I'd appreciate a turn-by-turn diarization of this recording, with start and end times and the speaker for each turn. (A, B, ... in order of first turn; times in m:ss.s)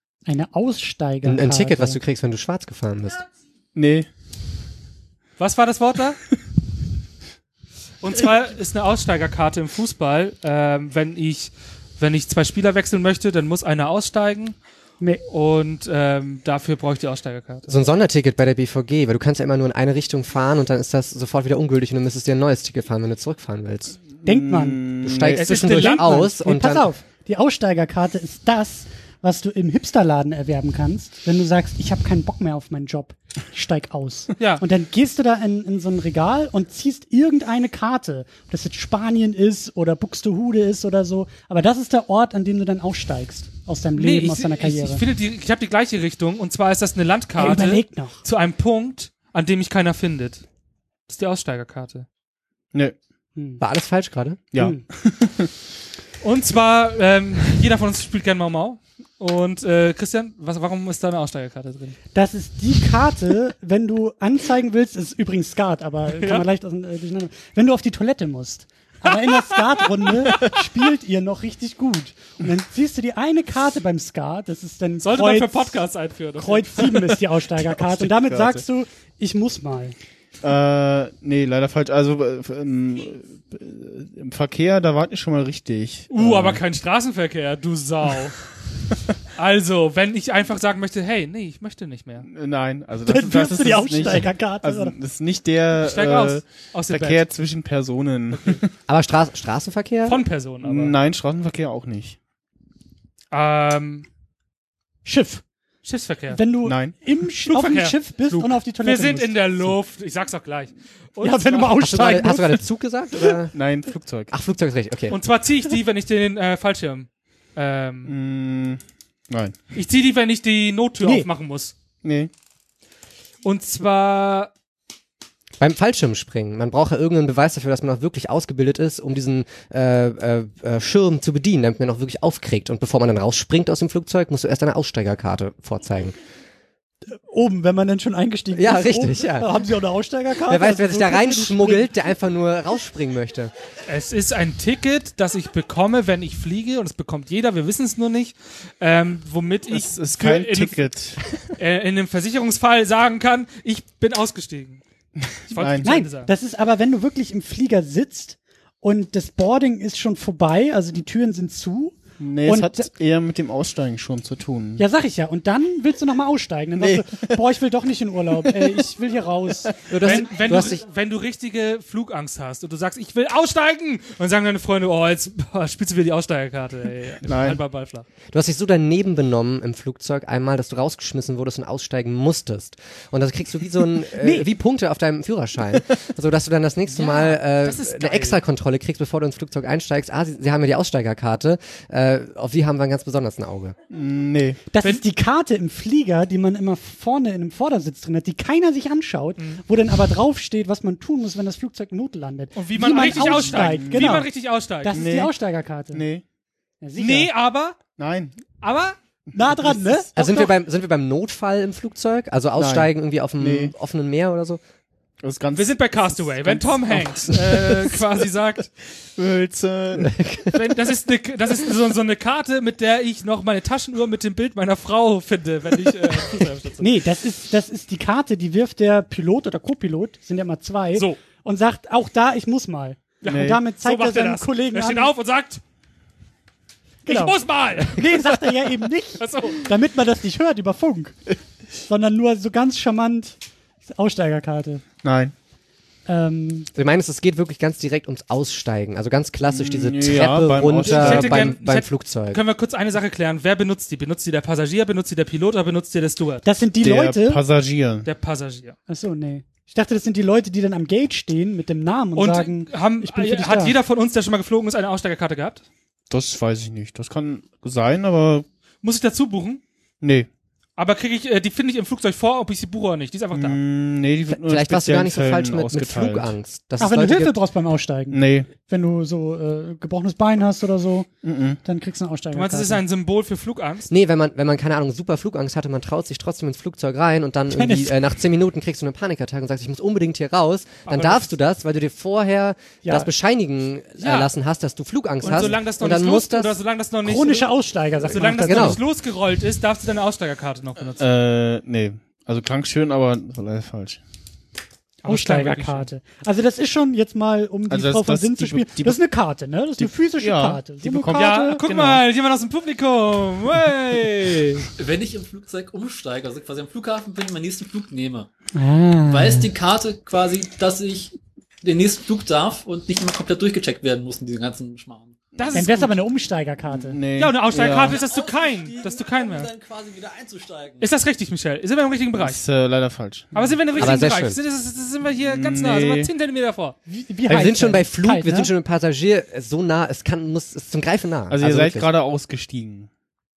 0:00.2-0:02.0 A
0:01.2-0:03.2 B
0:03.7-0:04.1 C
0:05.4-0:06.2 D
0:08.0-0:14.6 D
0:15.3-0:17.8 D
0:17.7-0:24.0 B
0:24.2-0:25.7 C
0:24.2-0:25.0 A
0:25.0-0:26.9 B
0:25.3-0:26.2 D
0:25.6-0:45.0 A
0:34.4-0:34.6 D
0:44.0-0:50.4 D
0:47.4-0:48.2 A
0:51.1-0:52.0 D
0:53.4-0:53.6 A
0:53.6-0:54.5 B
0:54.5-0:55.5 C
0:54.5-0:54.8 A
0:56.2-1:02.0 D
1:02.1-1:15.8 A
1:06.1-1:06.4 D
1:09.1-1:10.4 D
1:15.0-1:17.2 D
1:16.4-1:20.0 A
1:17.6-1:18.6 C
1:20.4-1:26.6 C
1:26.1-1:28.4 D
1:29.3-1:32.3 D
1:32.2-1:38.6 C
1:33.0-1:35.0 A
1:35.8-1:37.3 D
1:38.3-1:38.6 D
1:38.9-1:40.2 B
1:40.0-1:40.9 D
1:40.6-1:42.2 C
1:43.3-1:44.0 D
1:45.0-1:45.4 A
1:45.8-1:46.4 D
1:46.3-1:49.7 A
1:46.6-1:47.0 C
1:47.4-1:51.8 D
1:51.2-1:52.6 A
1:51.7-1:53.5 B
1:53.5-1:54.3 C
1:54.3-1:55.2 B
1:55.1-1:58.2 D
1:58.0-1:59.6 C
1:59.7-2:01.7 D
2:01.0-2:01.3 A
2:02.0-2:02.3 C
2:03.4-2:04.5 D
2:05.6-2:16.2 B
2:17.1-2:21.9 A
2:18.5-2:19.5 B
2:20.4-2:23.5 B
2:23.8-2:30.9 D
2:29.7-2:31.2 C
2:31.5-2:34.8 D
2:35.2-2:35.9 C
2:35.5-2:36.3 D
2:35.8-2:42.9 A
2:42.2-2:44.8 C
2:44.8-2:49.8 A
2:46.8-2:47.4 C
2:48.4-2:48.9 C
2:49.9-2:50.8 B
2:50.0-2:58.1 D
2:57.2-2:57.6 C
2:58.3-3:13.8 B
3:04.2-3:04.5 A
3:06.9-3:08.4 D
3:13.9-3:14.6 C
3:14.7-3:24.3 A
3:22.5-3:25.0 D
3:23.0-3:24.2 C
3:24.8-3:26.0 A
3:24.9-3:25.3 C
3:25.9-3:26.2 C
3:26.8-3:27.3 A
3:27.0-3:27.8 D
3:28.0-3:28.3 C
3:28.6-3:29.0 D
3:29.3-3:30.5 A
3:30.1-3:34.6 B
3:32.6-3:33.7 C
3:35.2-3:38.2 C
3:35.5-3:38.7 D
3:39.1-3:40.2 C
3:40.0-3:40.6 B
3:40.5-3:46.9 D
3:46.8-3:55.1 A
3:50.9-3:51.2 D
3:53.2-3:55.6 D
3:53.3-3:53.6 C
3:57.0-4:01.2 A
3:57.1-3:58.3 D
3:59.2-3:59.7 D
4:01.9-4:04.8 A
4:05.0-4:05.3 C
4:06.0-4:06.7 A
4:06.7-4:12.4 B
4:09.4-4:11.6 C
4:10.8-4:16.4 D
4:16.4-4:17.4 A
4:16.8-4:18.1 C
4:18.0-4:18.8 D
4:18.9-4:23.8 A
4:22.2-4:25.6 D
4:26.1-4:28.4 C
4:28.8-4:29.6 D
4:30.0-4:30.3 C
4:30.8-4:33.6 D
4:33.3-4:36.3 C
4:34.3-4:37.4 B
4:36.8-4:41.1 A
4:38.1-4:38.5 C
4:41.2-4:41.6 C
4:41.6-4:42.8 A
4:42.3-4:43.9 D
4:43.9-4:56.6 B
4:47.5-4:48.0 A
4:50.8-4:51.3 D
4:52.8-4:53.1 A
4:54.0-4:54.3 D
4:55.2-4:57.5 D
4:57.0-4:58.8 A
4:58.1-5:01.1 D
4:58.3-4:58.8 B
5:01.0-5:04.0 C
5:05.0-5:05.9 D
5:05.0-5:11.6 A
5:07.7-5:09.0 C
5:09.8-5:12.0 C
5:11.1-5:14.7 D
5:14.8-5:18.3 E
5:18.5-5:19.5 A
5:19.1-5:25.2 E
5:25.4-5:25.9 D
5:25.5-5:27.0 A
5:26.7-5:28.0 C
5:27.2-5:29.5 D
5:27.6-5:30.9 E
5:30.8-5:32.4 D
5:32.1-5:33.9 C
5:33.3-5:36.8 D
5:33.8-5:34.4 B
5:35.2-5:36.1 C
5:36.9-5:38.5 A
5:37.3-5:41.9 B
5:41.3-5:42.9 C